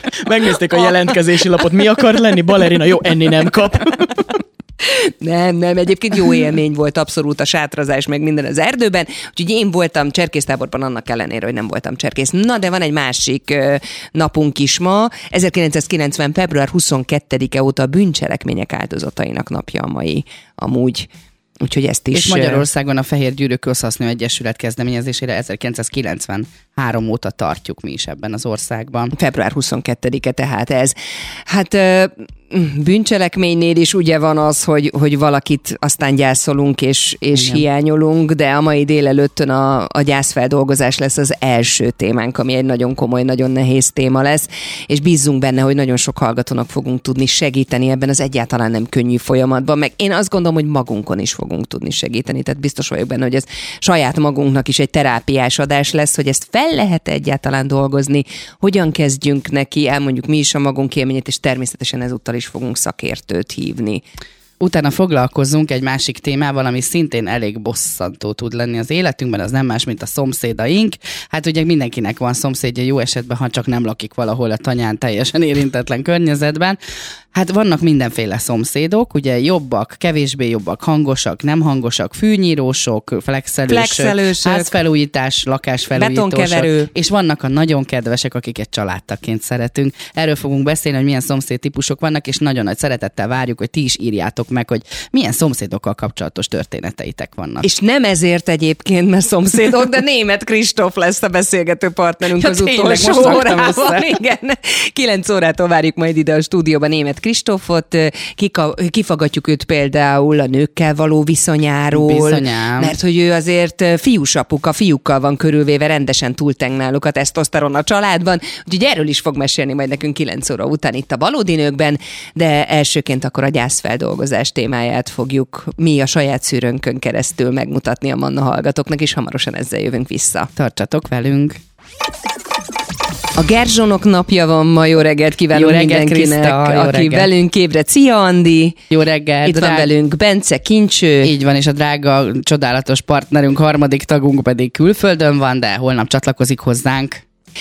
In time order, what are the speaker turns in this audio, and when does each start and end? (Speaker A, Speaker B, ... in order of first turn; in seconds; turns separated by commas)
Speaker A: 0.2-4.3, Speaker B: 0.7-1.1, Speaker B: 4.8-21.1, Speaker B: 21.6-22.6, Speaker C: 22.1-29.1, Speaker B: 29.1-64.0, Speaker C: 37.4-37.6, Speaker C: 64.6-76.8, Speaker C: 77.3-97.7, Speaker B: 83.7-84.7, Speaker B: 86.0-86.9, Speaker B: 97.6-130.5, Speaker C: 102.3-104.1, Speaker C: 111.9-113.0, Speaker C: 130.6-131.6, Speaker B: 133.4-138.8, Speaker C: 135.5-137.3, Speaker C: 138.9-139.9, Speaker B: 139.4-141.3, Speaker C: 141.2-147.2